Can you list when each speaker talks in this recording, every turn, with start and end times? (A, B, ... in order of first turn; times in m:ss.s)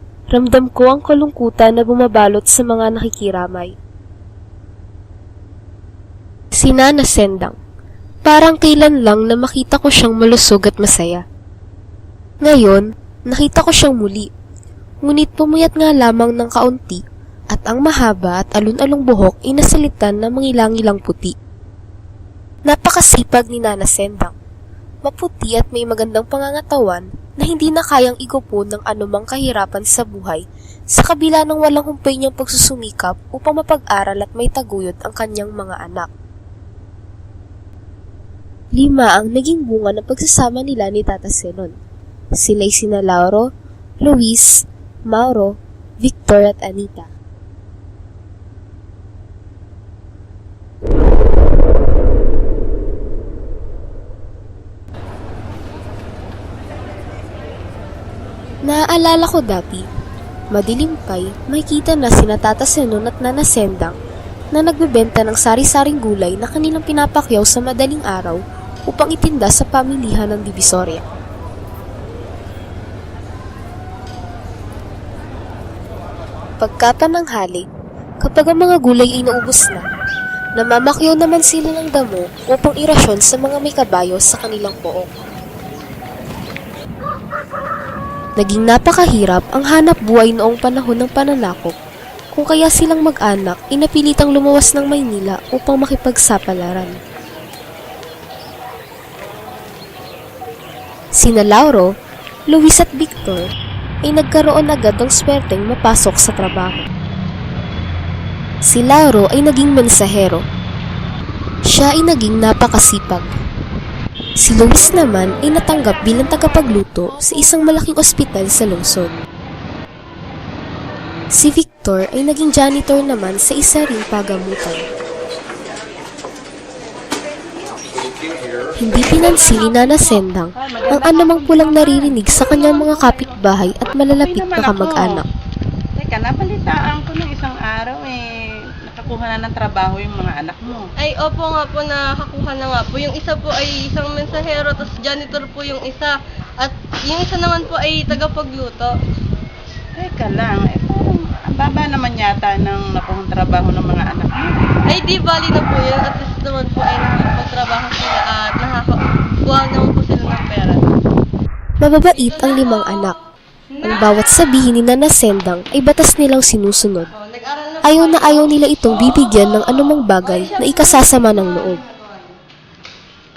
0:00.3-0:03.7 A
0:06.5-0:07.6 A
0:08.2-0:11.2 A
0:12.4-0:14.3 A
0:15.0-0:21.4 A
0:22.7-0:24.3 A
0:25.0-0:36.1 A
0:38.8-0:41.8 A
0:42.4-0:43.5 A
0:44.0-0:47.1 A
0:58.6-0:59.9 A
1:00.5-1:04.0 A
1:04.5-1:11.0 A
1:16.6-1:17.6 A
1:18.2-1:19.8 A
1:20.6-1:25.1 A
1:28.4-1:31.7 A
1:32.3-1:37.0 A
1:41.2-1:41.9 A
1:42.5-1:43.5 A
1:44.0-1:46.8 A
1:48.7-1:50.4 A
1:51.7-1:53.3 A
1:54.4-1:59.1 A
2:01.4-2:04.8 A
2:08.8-2:15.3 A
2:10.8-2:13.0 B
2:14.1-2:15.2 B
2:16.0-2:20.9 B
2:21.0-2:29.0 C
2:30.0-2:34.6 B
2:34.9-2:40.8 C
2:41.8-2:43.2 A
2:42.1-2:43.2 C
2:43.8-2:44.2 C
2:43.8-2:47.1 A
2:47.2-2:48.6 C
2:47.8-2:51.8 A
2:50.2-2:52.4 C